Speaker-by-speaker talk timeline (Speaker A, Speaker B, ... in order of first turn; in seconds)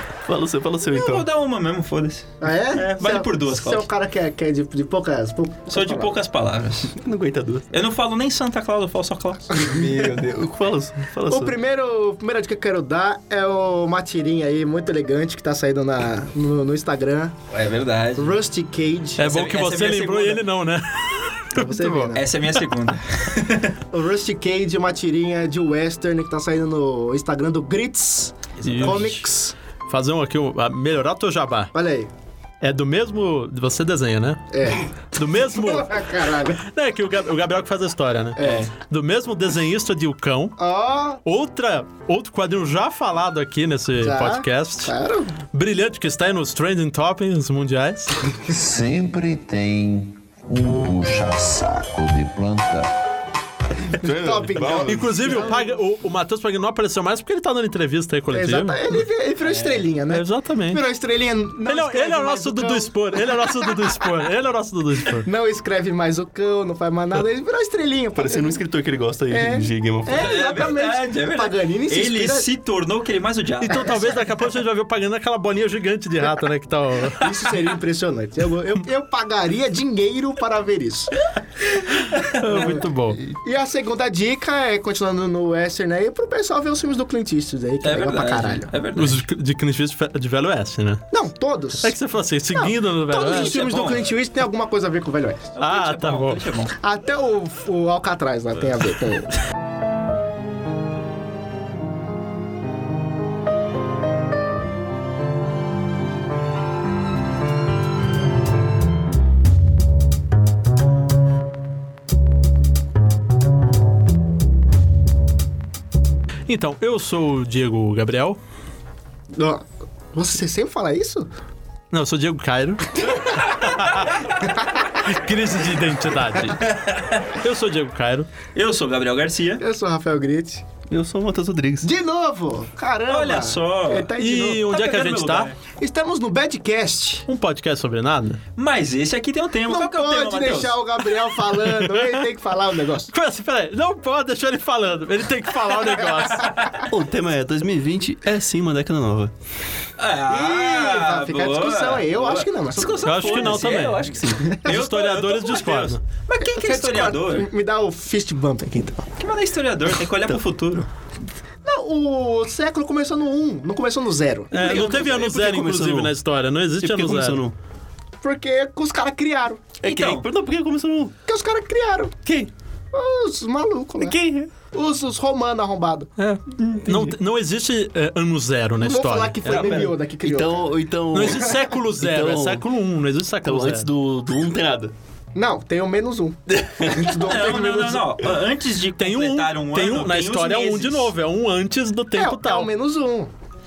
Speaker A: 0.2-1.3, 6.9-7.8, 9.6-11.6, 53.9-55.4, 68.1-70.4, 130.9-131.9, 146.9-149.3, 153.4-154.5, 164.5-166.1, 166.8-167.5, 169.8-171.1, 172.2-172.5, 174.0-174.5, 176.6-177.2, 179.4-182.6, 183.4-184.9, 186.5-187.1
Speaker B: 0.9-3.9, 5.7-6.9, 7.7-9.6, 17.5-18.4, 19.2-20.4, 22.1-23.7, 28.6-29.3, 38.4-38.7, 59.4-59.8, 70.1-74.2, 82.1-82.8, 87.8-89.2, 93.2-94.1, 95.5-96.7, 123.2-124.0, 126.6-127.3, 128.5-129.6, 133.1-134.1, 134.7-135.6, 138.6-141.0, 150.0-157.5, 159.2-160.9, 169.8-170.2, 187.1-191.1
Speaker C: 2.4-6.2, 9.5-9.9, 11.3-17.3, 18.2-19.2, 21.5-22.2, 23.9-29.5, 31.7-32.1, 34.5-34.9, 35.5-36.6, 38.4-38.7, 40.6-41.2, 44.0-45.4, 54.0-55.7, 58.3-63.9, 65.2-68.6, 69.3-72.5, 73.7-74.2, 77.1-81.2, 82.5-88.7, 91.1-91.9, 92.5-95.5, 96.8-99.3, 119.3-121.3, 124.4-124.8, 129.6-130.6, 131.8-134.7, 135.7-137.2, 139.7-143.1, 150.3-153.4, 156.4-159.1, 161.6-165.2, 168.2-169.6, 171.2-172.1, 172.9-174.1, 174.7-176.1, 178.8-181.6, 185.3-188.1, 192.1-193.3
Speaker D: 19.2-22.6, 28.6-29.1, 29.9-31.7, 32.6-36.0, 36.5-40.6, 41.2-44.9, 45.5-48.1, 54.8-59.0, 60.1-60.8, 61.6-65.3, 73.6-77.5, 82.4-83.2, 88.9-91.1, 91.8-93.6, 95.6-96.4, 116.5-118.4, 121.9-124.2, 125.0-126.7, 127.3-128.3, 134.2-135.5, 137.3-138.4, 141.7-142.1, 143.1-146.6, 153.0-154.0, 154.6-156.0, 164.5-167.4, 176.2-179.8, 181.1-183.9, 189.0-192.7
Speaker E: 48.5-52.9